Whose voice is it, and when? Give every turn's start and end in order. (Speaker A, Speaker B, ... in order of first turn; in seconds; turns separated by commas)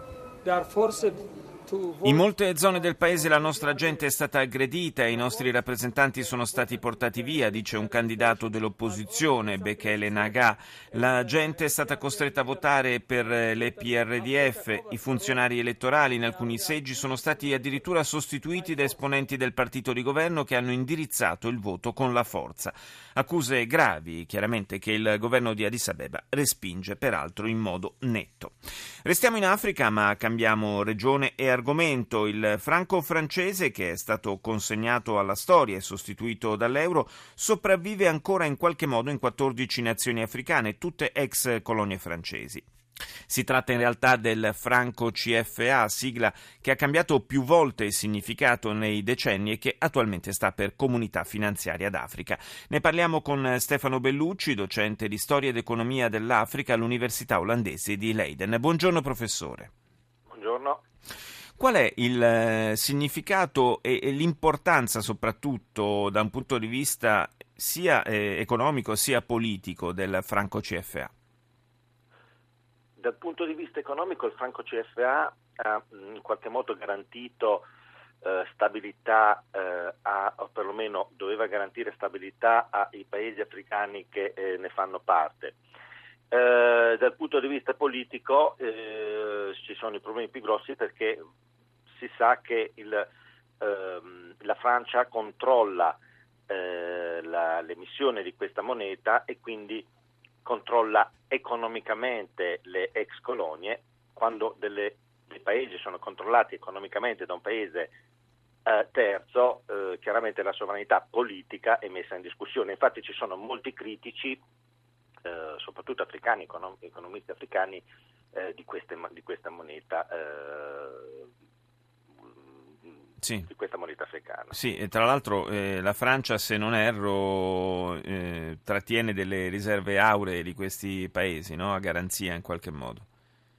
Speaker A: 0.4-4.2, Speaker B: 2.0-42.6, Speaker A: 5.0-15.5, Speaker A: 16.1-19.2, Speaker B: 43.3-59.7, Speaker C: 60.3-60.8, Speaker B: 61.6-71.1, Speaker C: 73.0-77.7, Speaker C: 78.2-85.6, Speaker C: 86.3-91.2, Speaker C: 91.9-93.1, Speaker C: 93.6-96.0, Speaker C: 96.5-99.9, Speaker C: 100.4-107.9, Speaker C: 108.7-114.4, Speaker C: 115.2-121.3, Speaker C: 122.2-124.6, Speaker B: 123.2-123.5, Speaker B: 124.5-133.1